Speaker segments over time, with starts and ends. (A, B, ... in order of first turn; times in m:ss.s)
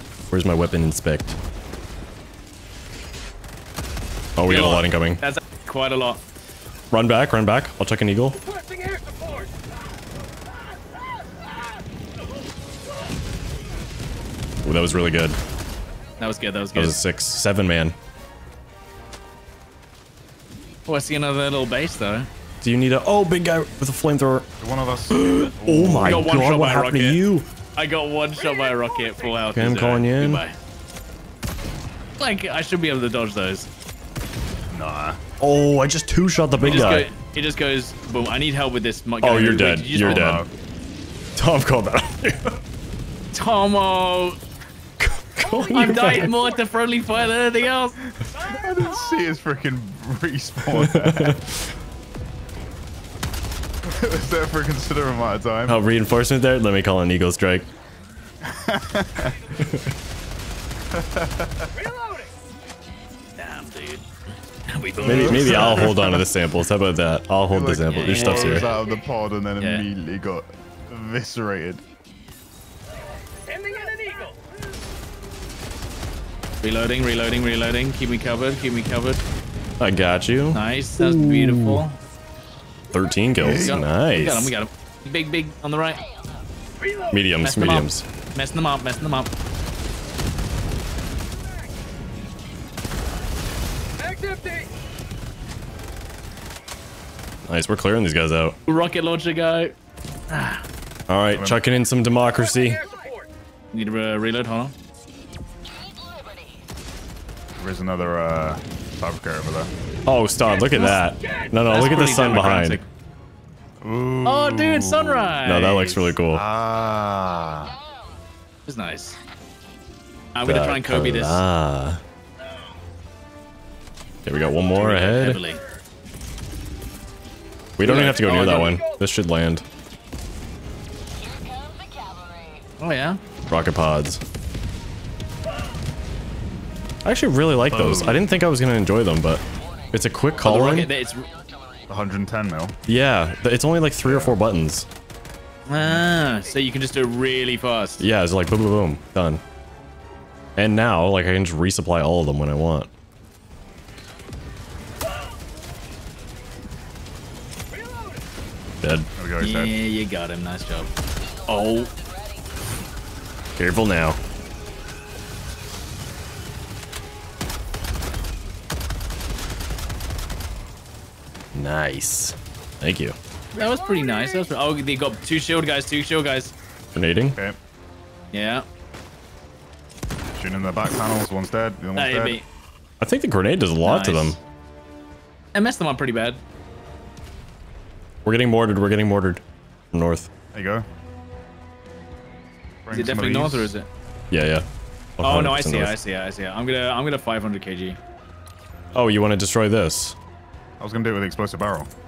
0:00.2-0:01.4 A
0:04.4-0:05.2 A
0:04.4-0:06.2 B
0:06.9-0:08.4 A
0:14.6-0:15.4 A
0:16.2-0:17.0 B
0:16.8-0:17.9 A
0:20.9-0:22.3 B
0:22.6-0:24.5 A
0:24.6-0:26.3 C
0:25.1-0:27.2 B
0:25.6-0:27.5 A
0:27.8-0:30.6 B
0:29.5-0:30.4 A
0:32.2-0:33.7 B
0:34.7-0:35.2 C
0:35.4-0:37.1 A
0:36.6-0:37.1 C
0:36.7-0:40.3 B
0:39.2-0:40.4 A
0:40.0-0:40.5 C
0:41.4-0:42.6 A
0:43.3-0:44.4 B
0:45.0-0:46.3 A
0:45.7-0:48.0 B
0:48.2-0:51.4 C
0:50.8-0:51.7 A
0:53.8-0:55.8 C
0:55.7-0:57.7 A
0:58.4-0:59.4 C
0:59.6-0:59.9 A
1:00.9-1:01.7 C
1:03.3-1:06.0 B
1:05.0-1:06.2 C
1:05.0-1:08.7 A
1:07.5-1:11.8 C
1:07.9-1:08.7 B
1:09.6-1:09.9 B
1:16.6-1:19.2 B
1:19.8-1:21.8 A
1:20.5-1:22.0 B
1:22.9-1:24.5 A
1:23.4-1:23.8 C
1:23.5-1:26.0 B
1:27.1-1:28.0 A
1:27.4-1:29.3 B
1:37.4-1:38.6 A
1:38.7-1:39.8 B
1:40.3-1:40.6 B
1:41.1-1:42.8 A
1:41.3-1:41.6 C
1:43.7-1:44.7 B
1:47.6-1:49.7 C
1:50.1-1:52.8 A
1:50.7-1:51.0 B
1:51.6-1:52.8 B
1:53.8-1:55.4 C
1:54.2-1:56.1 B
1:55.4-1:56.4 A
1:56.3-1:57.8 C
1:58.6-1:59.2 B
2:00.3-2:01.4 B
2:00.5-2:02.0 A
2:04.2-2:05.4 A
2:04.8-2:05.6 B
2:07.8-2:09.6 A
2:07.8-2:08.8 B
2:12.8-2:13.2 B
2:13.5-2:14.2 A
2:17.0-2:20.9 A
2:17.7-2:18.2 C
2:20.4-2:21.3 B
2:21.9-2:22.8 C
2:22.9-2:24.9 A
2:24.0-2:24.4 C
2:25.7-2:28.0 B
2:25.8-2:26.1 C
2:28.0-2:29.4 A
2:30.6-2:32.9 A
2:38.8-2:39.1 A
2:39.2-2:39.7 C
2:39.4-2:40.9 B
2:41.5-2:41.9 B
2:43.6-2:44.2 A
2:51.5-2:53.2 A
2:53.5-2:56.5 B
2:56.9-2:57.4 A
2:58.3-2:58.6 B
3:00.4-3:02.4 C
3:02.0-3:02.4 B
3:03.0-3:04.4 A
3:03.8-3:04.4 B
3:05.5-3:06.4 B
3:08.2-3:10.3 A
3:10.5-3:10.9 C
3:12.9-3:13.8 C
3:12.9-3:13.9 B
3:14.3-3:14.6 A
3:15.2-3:15.9 A
3:15.2-3:18.0 B
3:18.9-3:20.2 A
3:20.8-3:21.9 C